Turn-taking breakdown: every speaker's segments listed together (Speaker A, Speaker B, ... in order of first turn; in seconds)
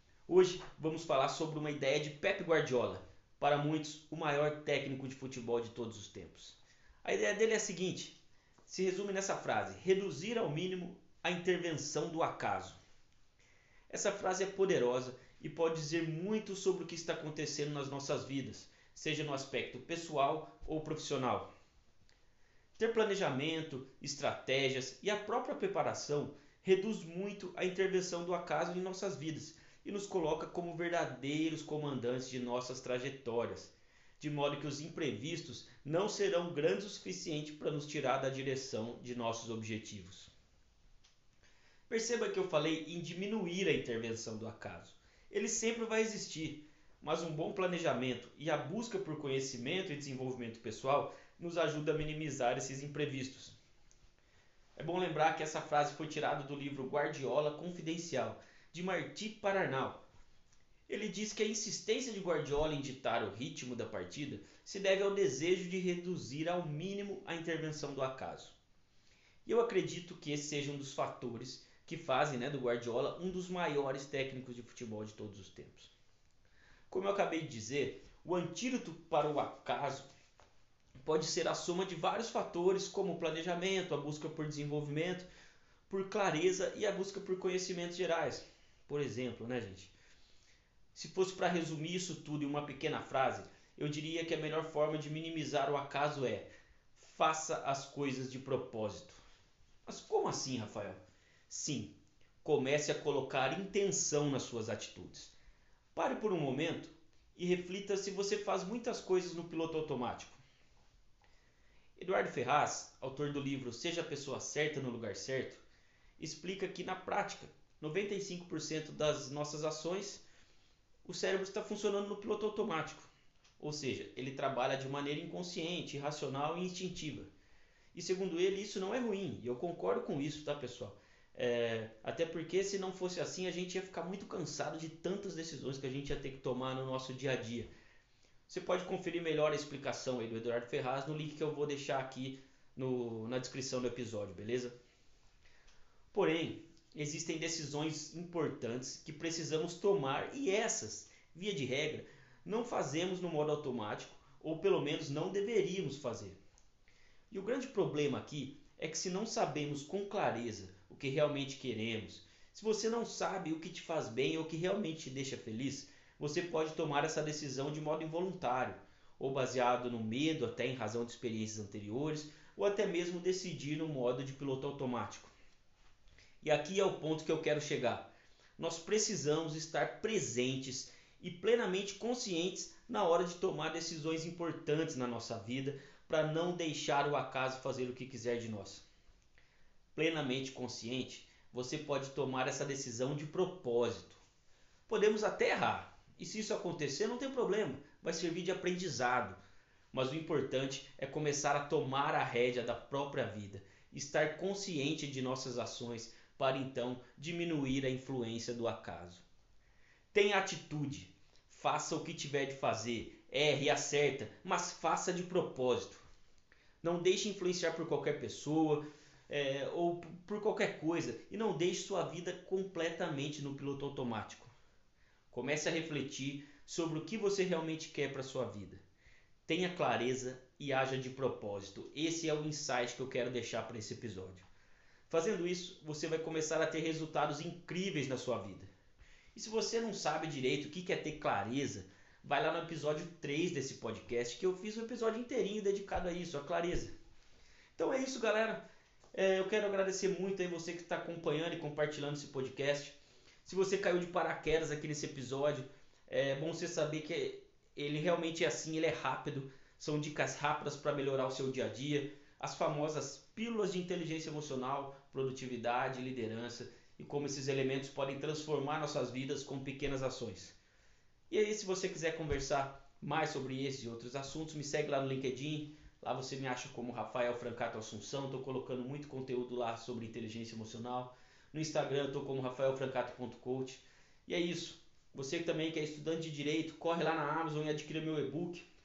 Speaker A: 0.3-12.8, 13.9-21.5, 22.8-40.3, 41.9-53.5, 54.8-60.0, 60.9-68.5, 69.4-75.9, 76.9-80.1, 81.0-85.3, 85.9-89.9, 90.9-99.2, 99.8-105.3, 105.9-110.4, 112.0-115.6, 116.2-120.2, 121.0-127.3, 127.9-137.7, 138.5-144.7, 146.1-156.4, 157.3-175.3, 176.4-188.8, 189.9-194.2, 194.9-199.4, 199.9-209.2, 210.1-216.1, 216.8-224.5, 225.3-228.8, 229.5-234.4, 235.1-238.7, 239.3-246.9, 247.8-248.6, 249.1-270.6, 271.3-288.6